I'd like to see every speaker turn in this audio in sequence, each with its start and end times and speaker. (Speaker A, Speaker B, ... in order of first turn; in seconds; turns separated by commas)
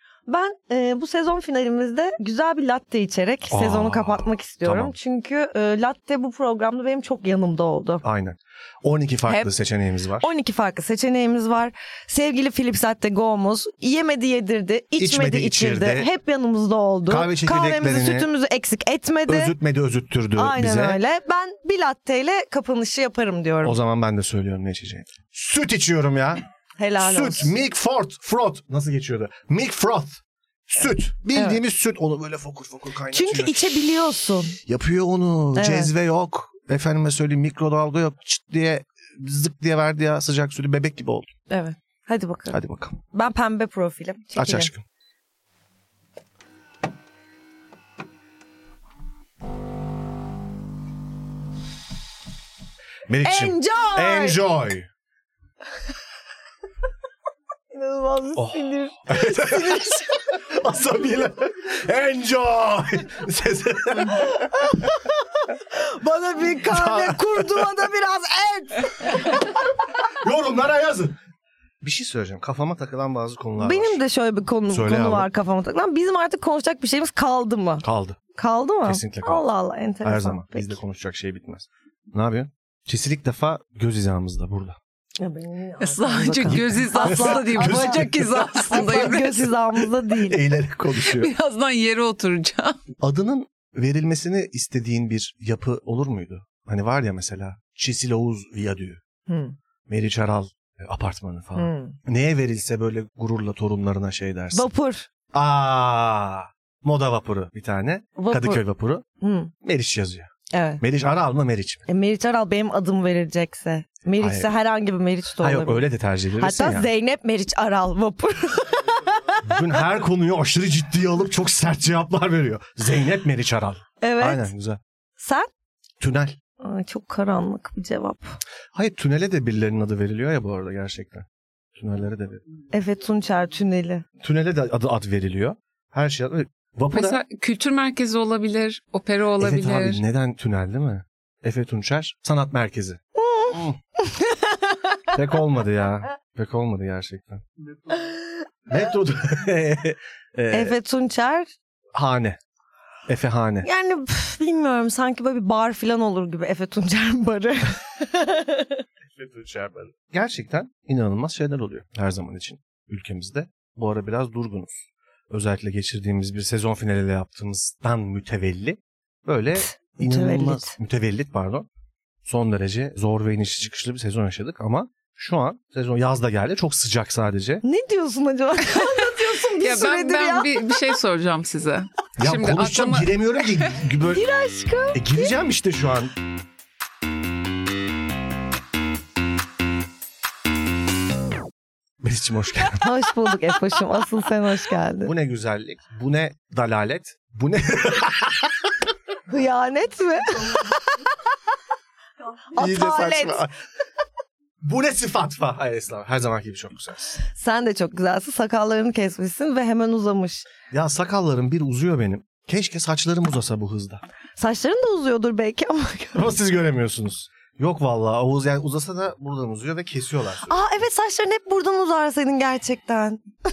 Speaker A: 0.3-8.0, Speaker B: 3.5-4.9, Speaker B: 8.0-10.2, Speaker A: 10.2-19.5, Speaker B: 15.0-16.1, Speaker B: 17.1-18.3, Speaker B: 19.3-21.0, Speaker A: 20.4-23.8, Speaker B: 23.6-26.4, Speaker A: 26.8-27.5, Speaker B: 27.0-33.7, Speaker A: 33.1-34.6, Speaker B: 34.6-41.3, Speaker A: 35.5-35.9, Speaker A: 41.5-42.6, Speaker B: 42.5-43.0, Speaker A: 43.1-44.7, Speaker B: 44.4-44.8, Speaker B: 53.1-54.9, Speaker A: 53.2-54.4, Speaker A: 57.7-60.1, Speaker B: 58.4-64.9, Speaker A: 65.7-69.5, Speaker B: 66.7-67.8, Speaker B: 69.1-71.2, Speaker B: 71.8-74.0, Speaker A: 73.6-77.8, Speaker B: 74.7-75.3, Speaker B: 77.8-78.2, Speaker A: 78.3-80.8, Speaker B: 78.8-79.5, Speaker B: 80.0-84.8, Speaker A: 85.2-90.5, Speaker C: 85.8-89.5, Speaker B: 86.5-89.4, Speaker B: 90.0-91.3, Speaker C: 91.0-92.8, Speaker B: 93.0-99.0, Speaker A: 99.3-99.5, Speaker B: 99.9-104.7, Speaker A: 101.5-102.0, Speaker A: 104.5-105.1, Speaker B: 105.3-109.0, Speaker A: 108.2-108.6, Speaker A: 109.2-109.5, Speaker B: 109.6-110.3, Speaker A: 110.5-110.8, Speaker B: 110.8-111.8, Speaker A: 111.9-119.5, Speaker B: 114.2-114.5, Speaker B: 115.4-116.9, Speaker B: 119.4-124.8, Speaker A: 124.0-124.5, Speaker A: 125.2-125.5, Speaker B: 126.0-126.4, Speaker A: 126.6-128.4, Speaker B: 128.7-132.4, Speaker A: 132.7-134.0, Speaker B: 134.2-137.2, Speaker C: 136.9-140.0, Speaker B: 139.4-143.0, Speaker A: 143.2-145.1, Speaker B: 143.5-143.8, Speaker B: 145.1-147.4, Speaker B: 148.7-150.8, Speaker A: 150.5-151.5, Speaker B: 151.9-152.4, Speaker B: 153.1-153.7, Speaker A: 153.6-158.8, Speaker B: 159.1-171.7, Speaker A: 169.9-170.7, Speaker B: 172.2-177.6, Speaker A: 177.6-180.8, Speaker C: 178.7-183.5, Speaker B: 182.2-184.2, Speaker A: 184.0-185.3, Speaker B: 184.9-186.1, Speaker B: 192.0-192.9, Speaker A: 192.8-195.1, Speaker B: 195.0-198.7, Speaker A: 199.3-201.1, Speaker A: 202.5-203.5, Speaker B: 202.6-203.5, Speaker B: 204.6-207.2, Speaker A: 207.2-210.4, Speaker B: 210.7-214.0, Speaker A: 214.4-216.3, Speaker B: 216.1-220.5, Speaker A: 220.4-223.2